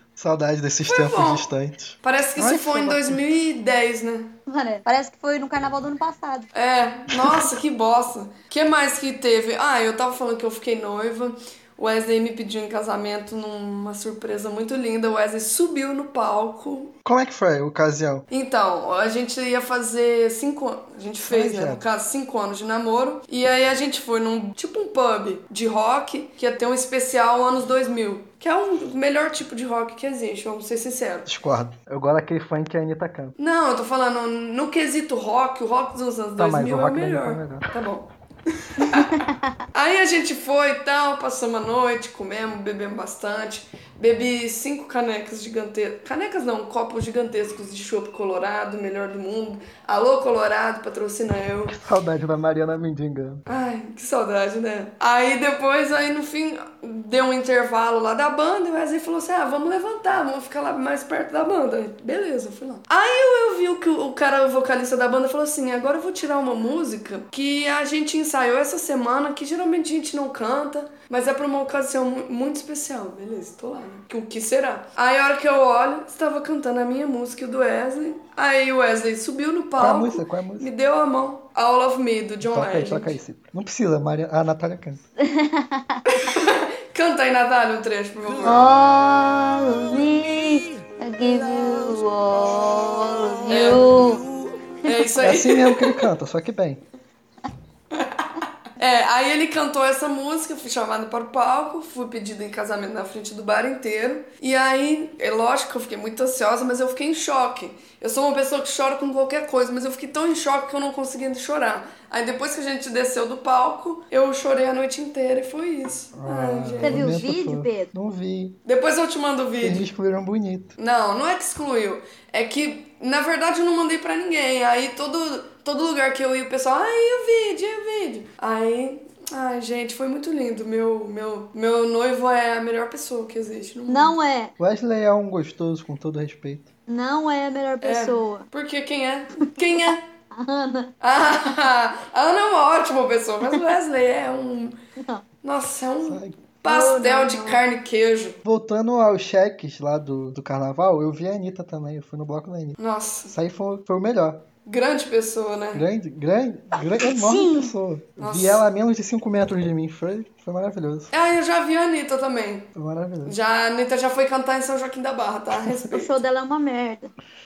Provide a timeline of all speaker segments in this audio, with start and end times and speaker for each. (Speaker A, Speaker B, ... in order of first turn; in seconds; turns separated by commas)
Speaker A: 0.2-3.2, Speaker B: 0.9-1.5, Speaker B: 2.0-4.3, Speaker C: 4.5-6.5, Speaker B: 6.5-16.9, Speaker A: 17.1-18.3, Speaker B: 18.3-31.3, Speaker A: 21.3-21.8, Speaker A: 31.3-33.4, Speaker B: 33.4-51.8, Speaker A: 36.4-37.7, Speaker C: 38.8-39.6, Speaker A: 51.7-53.5, Speaker B: 53.5-83.2, Speaker A: 79.8-80.7, Speaker A: 82.4-85.0, Speaker C: 85.2-86.4, Speaker B: 86.1-88.7, Speaker C: 88.4-94.3, Speaker B: 93.5-93.9, Speaker B: 94.8-96.1, Speaker A: 95.2-96.8, Speaker B: 98.0-98.2, Speaker B: 98.8-117.2, Speaker A: 116.2-118.6, Speaker C: 116.8-117.9, Speaker B: 118.7-119.8, Speaker A: 119.6-120.7, Speaker B: 120.8-134.2, Speaker C: 133.9-134.5, Speaker A: 134.6-136.7, Speaker C: 136.9-138.5, Speaker B: 137.8-140.0, Speaker C: 139.4-140.9, Speaker B: 141.0-144.8, Speaker C: 145.0-145.2, Speaker B: 145.4-148.4, Speaker A: 146.0-146.4, Speaker C: 146.7-147.6, Speaker A: 148.4-152.8, Speaker B: 152.8-153.3, Speaker A: 153.3-154.5, Speaker B: 154.7-155.8, Speaker A: 155.7-161.1, Speaker C: 156.8-157.7, Speaker B: 158.2-158.6, Speaker B: 161.1-162.7, Speaker A: 162.8-163.4, Speaker B: 163.2-166.1, Speaker C: 165.9-167.1